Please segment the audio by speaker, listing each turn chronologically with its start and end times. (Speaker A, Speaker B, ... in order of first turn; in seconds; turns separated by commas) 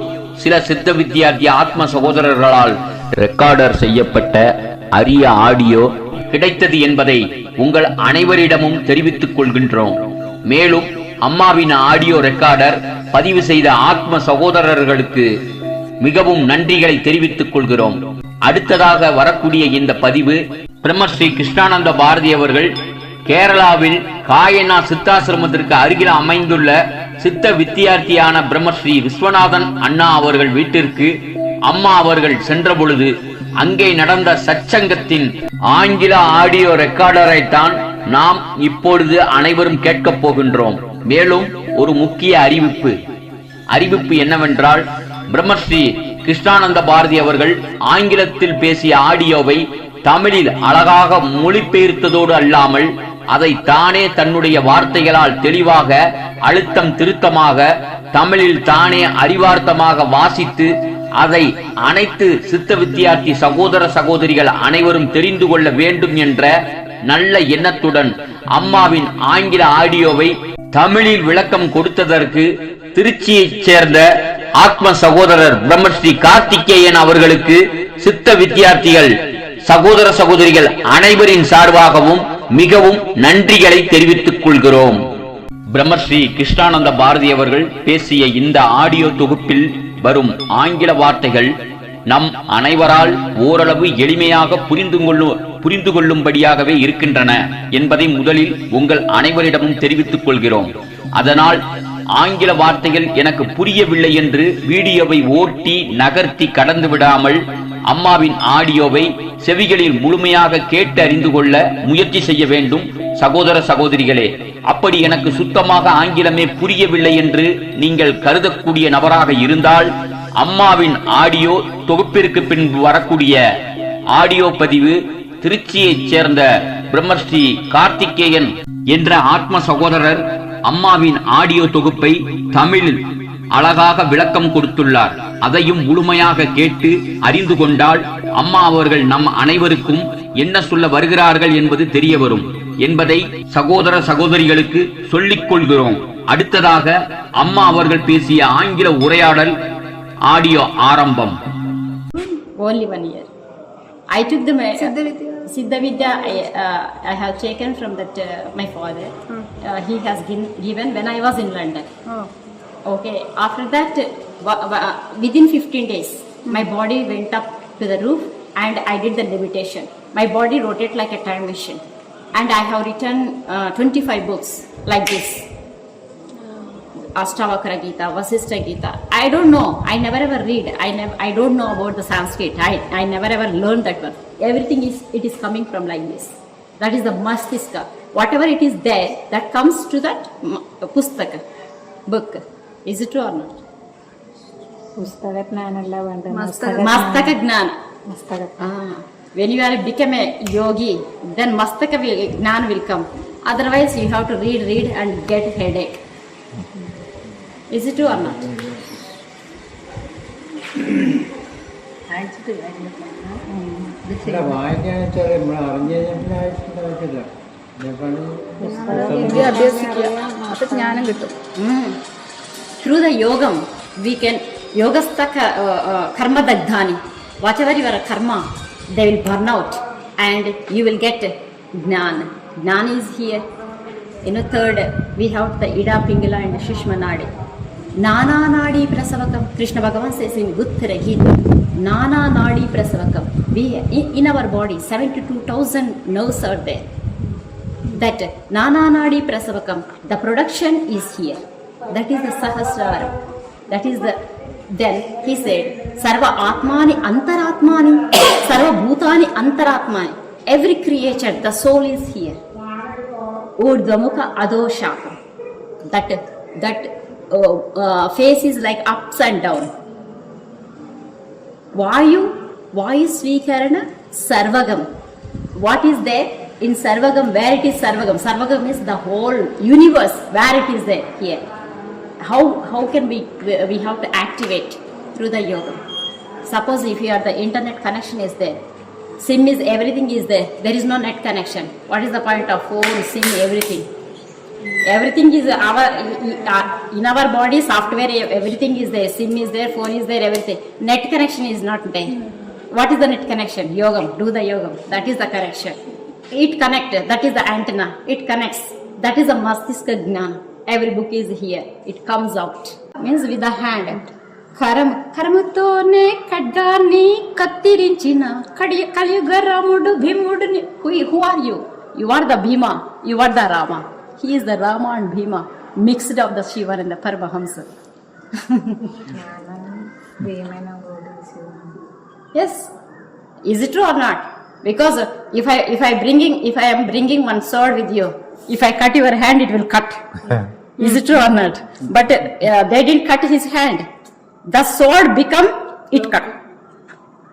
Speaker A: 0.4-10.0, Speaker A: 10.5-15.3, Speaker A: 16.0-22.7, Speaker A: 23.3-31.1, Speaker A: 31.7-43.0, Speaker A: 43.7-66.5, Speaker A: 67.1-79.1, Speaker A: 79.7-85.0, Speaker A: 85.7-91.5, Speaker A: 92.1-101.6, Speaker A: 102.2-123.4, Speaker A: 124.1-149.6, Speaker A: 150.3-151.4, Speaker B: 152.6-153.3, Speaker B: 154.1-154.9, Speaker C: 154.8-155.5, Speaker B: 155.5-161.9, Speaker B: 162.9-175.4, Speaker B: 177.2-191.4, Speaker B: 192.1-193.6, Speaker D: 195.0-197.4, Speaker C: 196.3-197.2, Speaker B: 196.8-197.8, Speaker D: 198.1-198.6, Speaker B: 198.6-206.0, Speaker B: 207.7-208.4, Speaker E: 208.0-209.0, Speaker D: 212.1-214.6, Speaker E: 214.2-219.7, Speaker D: 218.6-221.1, Speaker C: 218.6-221.4, Speaker B: 221.6-222.0, Speaker B: 222.8-233.4, Speaker B: 234.2-237.3, Speaker B: 238.0-246.8, Speaker B: 247.9-253.1, Speaker B: 253.7-254.2, Speaker B: 254.7-262.4, Speaker B: 263.6-265.2, Speaker B: 265.9-269.7, Speaker B: 271.8-274.9, Speaker B: 275.6-281.4, Speaker B: 282.2-285.8, Speaker B: 286.5-288.6, Speaker B: 289.2-293.9, Speaker B: 294.8-302.1, Speaker B: 302.7-305.8, Speaker B: 306.3-327.7, Speaker B: 328.4-328.8, Speaker D: 329.1-331.8, Speaker B: 332.4-332.7, Speaker B: 333.5-340.2, Speaker B: 340.8-343.9, Speaker B: 344.5-346.3